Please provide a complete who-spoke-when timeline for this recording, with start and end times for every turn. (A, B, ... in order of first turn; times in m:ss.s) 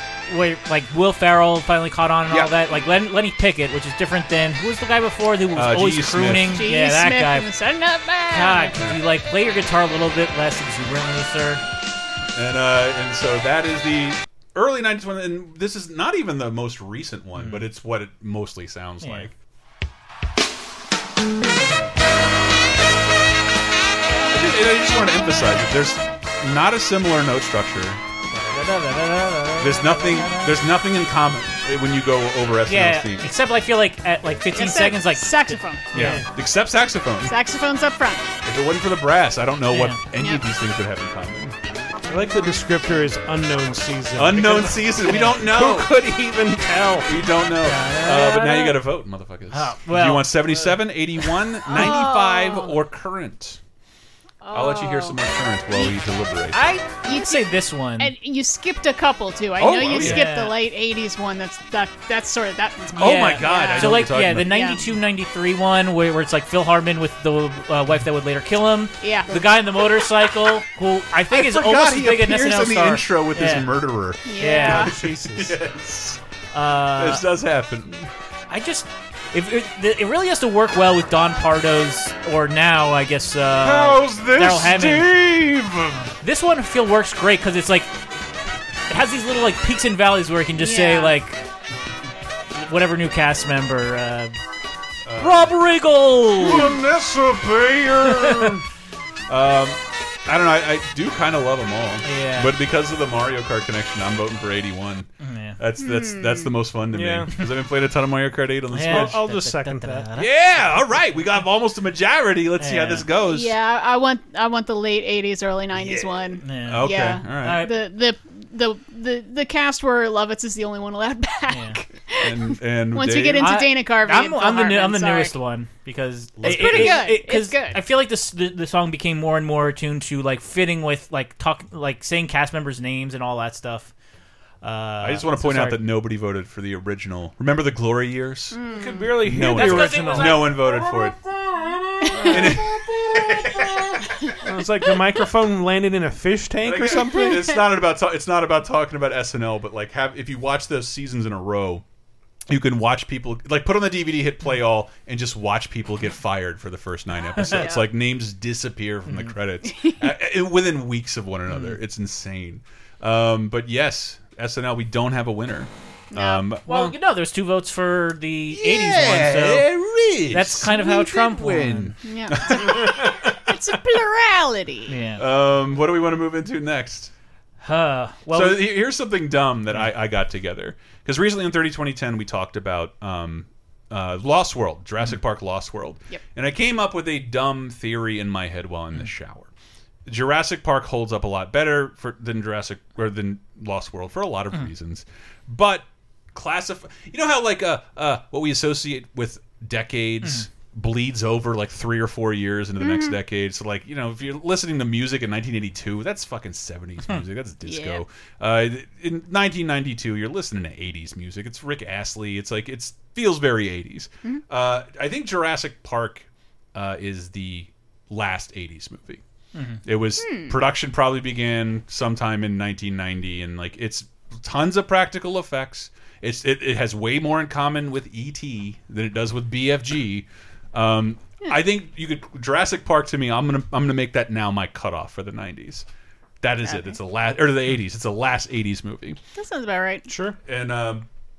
0:00.3-0:07.5 A
0:05.6-0:06.6 B
0:06.6-0:08.7 C
0:08.3-0:11.6 A
0:12.4-0:19.3 B
0:17.4-0:17.7 A
0:19.0-0:19.3 A
0:24.3-0:28.0 B
0:28.3-0:30.6 A
0:29.6-0:33.3 B
0:32.7-0:36.2 A
0:34.6-0:35.8 C
0:35.9-0:37.4 B
0:37.2-0:38.3 C
0:38.4-0:41.6 B
0:39.7-0:40.0 A
0:42.1-0:47.1 D
0:44.2-0:45.9 B
0:45.0-0:45.4 A
0:47.0-0:53.6 B
0:47.6-0:48.8 A
0:49.5-0:51.3 A
0:51.7-0:52.8 C
0:54.4-0:55.2 C
0:54.5-0:56.6 B
0:56.5-0:58.1 A
0:57.0-1:04.8 C
0:59.6-1:00.2 B
0:59.9-1:00.6 A
1:03.0-1:04.5 B
1:03.0-1:13.7 A
1:09.0-1:09.4 C
1:11.3-1:14.2 B
1:14.3-1:14.9 C
1:14.4-1:14.9 A
1:14.5-1:15.6 D
1:14.9-1:16.2 B
1:16.5-1:17.3 A
1:17.0-1:18.1 B
1:18.5-1:25.2 A
1:23.6-1:26.1 B
1:26.2-1:28.0 A
1:28.9-1:31.4 A
1:30.6-1:31.1 C
1:32.6-1:34.4 A
1:35.0-1:35.5 B
1:35.2-1:36.7 A
1:36.4-1:38.6 B
1:38.2-1:38.5 A
1:39.3-1:49.2 B
1:42.0-1:42.6 A
1:45.2-1:45.6 A
1:45.8-1:46.5 C
1:46.9-1:47.3 D
1:48.7-1:50.5 A
1:48.9-1:50.1 D
1:50.2-1:53.5 B
1:52.6-1:53.1 A
1:53.2-2:05.4 C
1:55.8-1:57.6 B
1:56.4-1:56.9 A
1:57.4-1:57.8 A
2:01.5-2:01.8 A
2:02.2-2:03.5 B
2:03.4-2:13.9 A
2:06.4-2:07.0 B
2:06.4-2:07.8 C
2:14.6-2:15.8 A
2:15.0-2:18.6 B
2:18.5-2:19.3 C
2:18.7-2:20.7 D
2:19.3-2:24.1 B
2:19.5-2:20.6 A
2:22.1-2:22.6 C
2:22.2-2:23.0 D
2:24.4-2:27.6 D
2:26.6-2:31.8 B
2:26.9-2:27.6 C
2:32.5-2:47.0 B
2:37.4-2:37.8 C
2:39.1-2:39.3 A
2:39.7-2:40.1 C
2:41.5-2:41.8 A
2:46.1-2:46.5 C
2:46.7-2:49.7 A
2:48.5-2:53.3 B
2:50.3-2:52.0 A
2:52.0-2:55.0 C
2:54.9-2:55.2 A
2:55.2-2:57.1 B
2:57.6-2:58.7 A
2:58.3-3:09.5 B
3:10.1-3:39.2 B
3:22.8-3:23.2 C
3:27.7-3:28.0 C
3:39.5-3:39.8 A
3:39.8-3:55.9 B
3:40.2-3:40.6 C
3:56.4-3:59.2 B
3:56.6-3:57.0 C
3:59.4-4:00.1 C
4:00.1-4:00.4 D
4:00.4-4:01.1 B